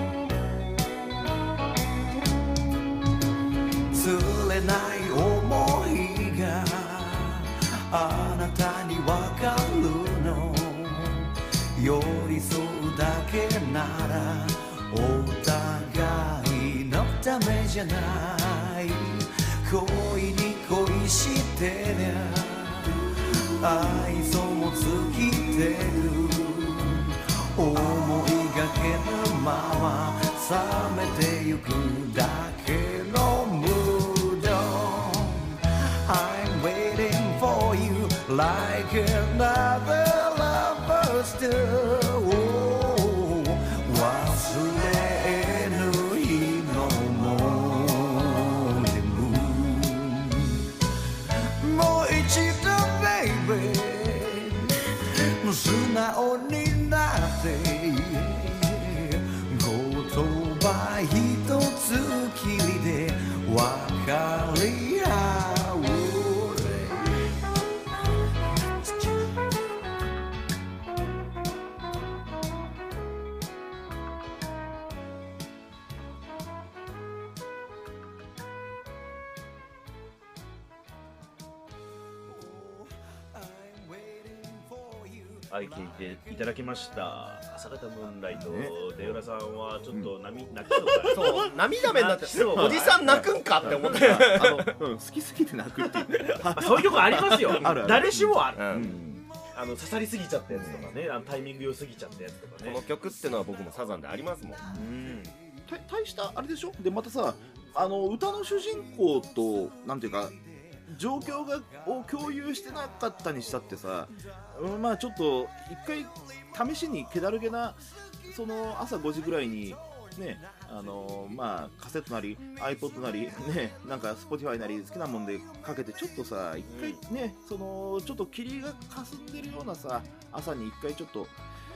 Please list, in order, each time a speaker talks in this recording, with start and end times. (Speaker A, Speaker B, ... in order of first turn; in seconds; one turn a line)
Speaker A: 3.9-50.7
Speaker A: 51.6-54.9
Speaker A: 55.4-67.4
Speaker A: 68.8-69.2
Speaker A: 82.3-86.2
Speaker B: 85.5-93.8
Speaker C: 88.3-88.8
Speaker C: 91.0-91.3
Speaker D: 91.1-94.7
Speaker C: 92.5-99.3
Speaker B: 96.1-99.0
Speaker D: 98.6-98.9
Speaker B: 99.5-102.8
Speaker C: 100.5-100.9
Speaker D: 102.6-104.6
Speaker B: 104.7-105.3
Speaker C: 105.7-131.3
Speaker B: 126.7-127.0